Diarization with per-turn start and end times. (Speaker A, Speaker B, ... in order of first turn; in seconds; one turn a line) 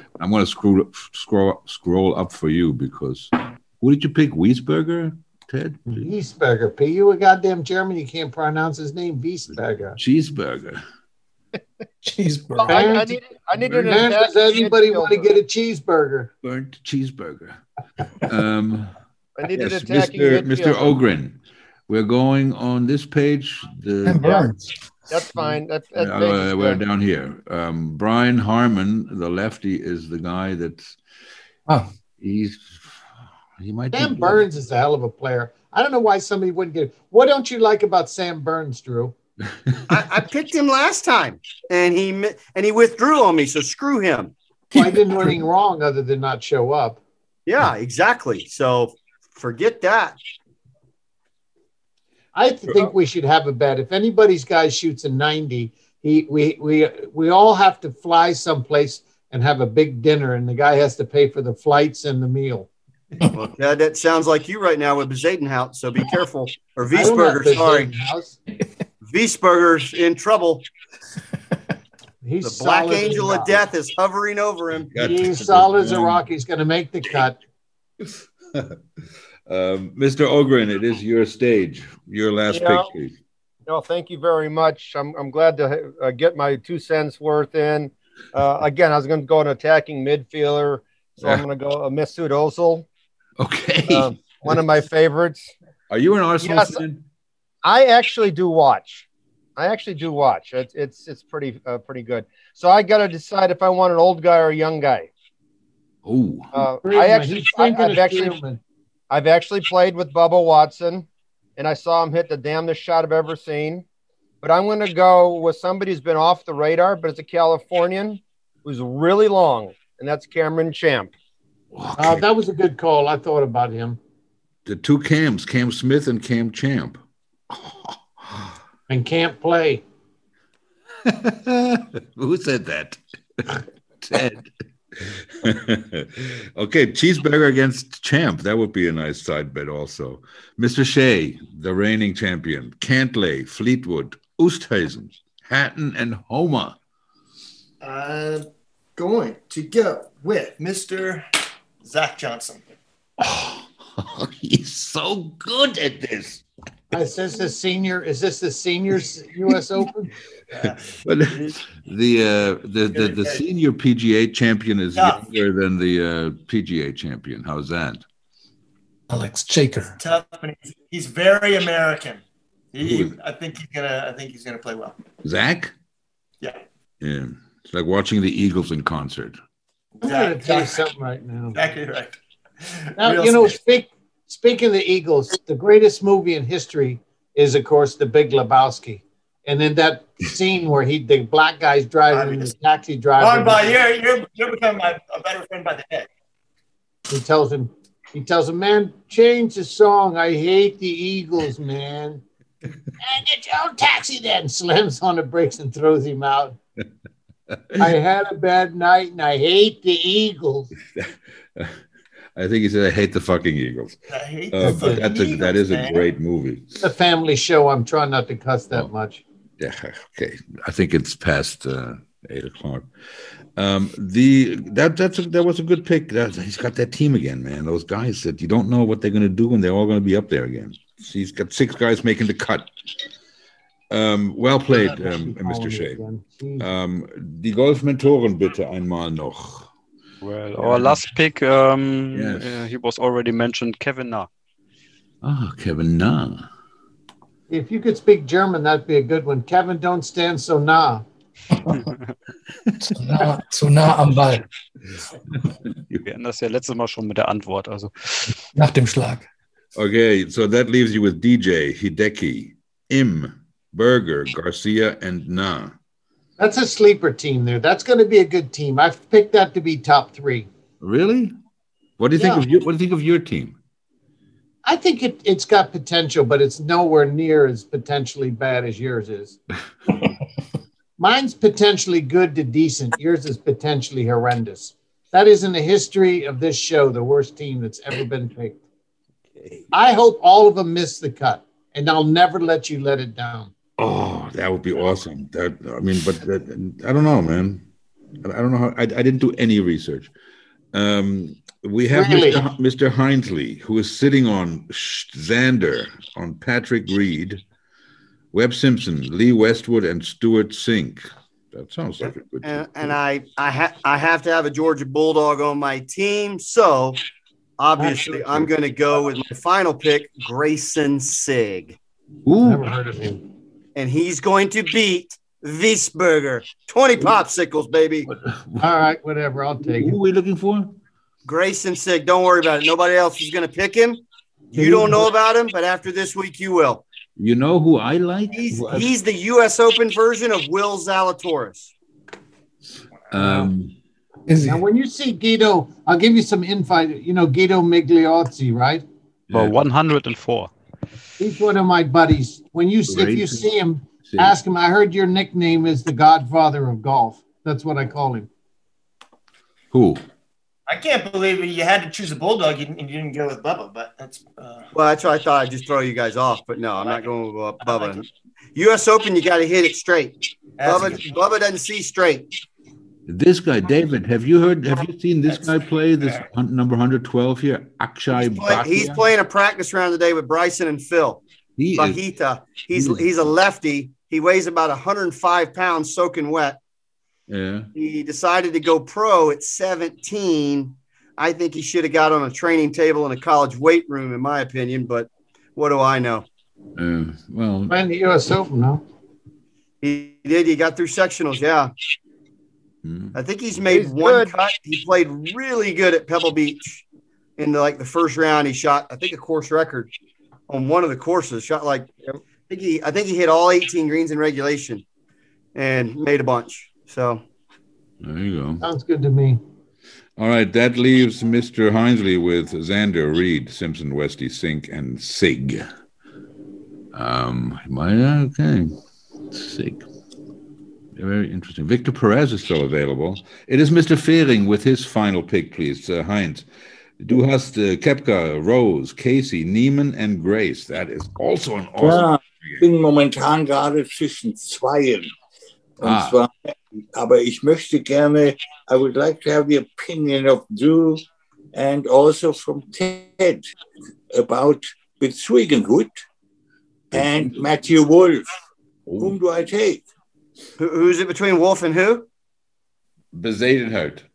Speaker A: 0.2-6.1
Speaker B: 5.9-10.0
Speaker A: 10.0-10.8
Speaker C: 12.0-12.9
Speaker B: 12.7-13.1
Speaker D: 12.7-15.3
Speaker A: 13.6-13.9
Speaker B: 13.8-16.3
Speaker A: 16.4-17.6
Speaker A: 18.2-18.9
Speaker D: 19.4-20.9
Speaker A: 19.5-21.4
Speaker A: 21.9-24.5
Speaker C: 24.0-24.7
Speaker D: 25.1-26.8
Speaker A: 25.9-31.0
Speaker A: 32.2-32.8
Speaker A: 33.6-34.4
Speaker B: 33.9-39.1
Speaker E: 39.9-44.3
Speaker B: 44.7-47.0
Speaker C: 44.8-45.3
Speaker E: 47.5-50.2
Speaker B: 52.3-62.7
Speaker E: 63.3-67.9
Speaker B: 66.9-68.4
Speaker E: 69.0-70.7
Speaker B: 72.2-73.6
Speaker E: 72.4-74.9
Speaker A: 74.9-76.2
Speaker B: 75.0-77.4
Speaker A: 79.5-83.1
Speaker D: 82.5-82.9
Speaker D: 83.7-92.9
Speaker A: 93.4-94.7
Speaker D: 93.9-95.5
Speaker A: 95.9-97.0
Speaker D: 96.4-96.8
Speaker D: 97.6-99.0
Speaker D: 99.6-105.1
Speaker A: 106.0-106.5
Speaker D: 106.5-108.3
Speaker B: 106.8-108.6
Speaker D: 109.1-113.8
Speaker D: 114.4-121.1
Speaker A: 121.7-122.2
Speaker B: 122.0-124.0
Speaker A: 124.6-128.5
Speaker B: 128.9-129.8
Speaker A: 131.0-146.8
Speaker F: 147.8-151.2
Speaker F: 151.8-152.7
Speaker A: 153.2-156.4
Speaker B: 156.9-160.1
Speaker F: 160.6-161.6
Speaker A: 161.0-168.0
Speaker F: 162.9-163.4
Speaker F: 164.9-165.2
Speaker C: 169.1-169.9
Speaker F: 170.0-175.0
Speaker A: 172.8-173.1
Speaker A: 175.2-175.7
Speaker A: 177.0-179.4
Speaker F: 180.0-180.8
Speaker B: 180.0-181.6
Speaker F: 181.5-183.6
Speaker B: 183.0-193.8
Speaker F: 192.1-192.5
Speaker F: 193.2-196.1
Speaker B: 197.1-202.2
Speaker B: 203.0-206.6
Speaker B: 207.8-210.7
Speaker A: 210.9-211.8
Speaker A: 212.3-214.0
Speaker F: 214.1-216.1
Speaker A: 214.5-216.7
Speaker B: 214.6-215.2
Speaker B: 216.8-219.2
Speaker A: 219.6-222.9
Speaker A: 223.6-232.7
Speaker A: 233.9-236.0
Speaker B: 234.7-236.7
Speaker A: 236.6-239.7
Speaker G: 240.2-244.3
Speaker A: 240.6-241.0
Speaker A: 242.1-242.6
Speaker A: 245.2-246.4
Speaker B: 247.5-251.0
Speaker C: 252.8-254.5
Speaker G: 256.0-258.3
Speaker C: 258.5-259.2
Speaker A: 259.7-265.7
Speaker B: 266.4-270.5
Speaker A: 270.8-271.3
Speaker A: 272.0-273.6
Speaker B: 272.1-272.4
Speaker B: 274.6-279.4
Speaker B: 281.0-288.6
Speaker B: 289.7-293.5
Speaker A: 293.8-297.6
Speaker A: 298.2-300.1
Speaker A: 300.7-307.4
Speaker B: 301.9-302.4
Speaker A: 308.3-312.9
Speaker E: 312.0-317.0
Speaker E: 317.6-321.8
Speaker B: 317.8-318.2
Speaker A: 322.2-322.7
Speaker B: 322.4-323.2
Speaker E: 323.7-328.1
Speaker A: 328.1-328.7
Speaker B: 328.6-330.0
Speaker A: 329.8-330.8
Speaker E: 331.2-334.0
Speaker B: 334.5-335.1
Speaker E: 334.5-336.8
Speaker A: 337.2-338.9
Speaker E: 338.3-341.7
Speaker A: 343.1-343.7
Speaker B: 343.1-343.5
Speaker C: 344.3-344.6
Speaker B: 344.4-348.8
Speaker A: 349.3-349.6
Speaker G: 349.3-350.5
Speaker B: 351.2-358.3
Speaker A: 352.9-353.5
Speaker A: 354.1-354.4
Speaker A: 359.7-360.0
Speaker F: 360.7-364.7
Speaker E: 364.7-368.0
Speaker F: 367.6-368.0
Speaker E: 368.6-372.3
Speaker F: 370.6-371.0
Speaker A: 373.1-379.0
Speaker E: 378.1-381.2
Speaker A: 381.6-382.0
Speaker E: 381.7-386.6
Speaker A: 382.7-383.0
Speaker A: 387.3-387.7
Speaker E: 387.7-396.3
Speaker A: 396.8-397.7
Speaker B: 397.7-398.8
Speaker E: 399.8-401.7
Speaker A: 402.8-403.2
Speaker E: 403.1-406.8
Speaker D: 403.7-404.5
Speaker E: 407.4-409.9
Speaker E: 410.5-411.9
Speaker E: 412.5-414.8
Speaker E: 415.5-417.2
Speaker A: 418.0-418.6
Speaker B: 418.6-419.4
Speaker A: 420.2-425.6
Speaker A: 426.9-428.7
Speaker A: 429.3-429.8
Speaker A: 430.9-436.4
Speaker A: 437.0-442.6
Speaker H: 441.8-445.1
Speaker H: 445.8-453.5
Speaker A: 445.8-446.2
Speaker H: 454.1-456.0
Speaker H: 456.9-458.3
Speaker A: 456.9-457.3
Speaker A: 458.9-459.1
Speaker H: 459.0-459.8
Speaker E: 460.6-462.1
Speaker A: 463.1-464.0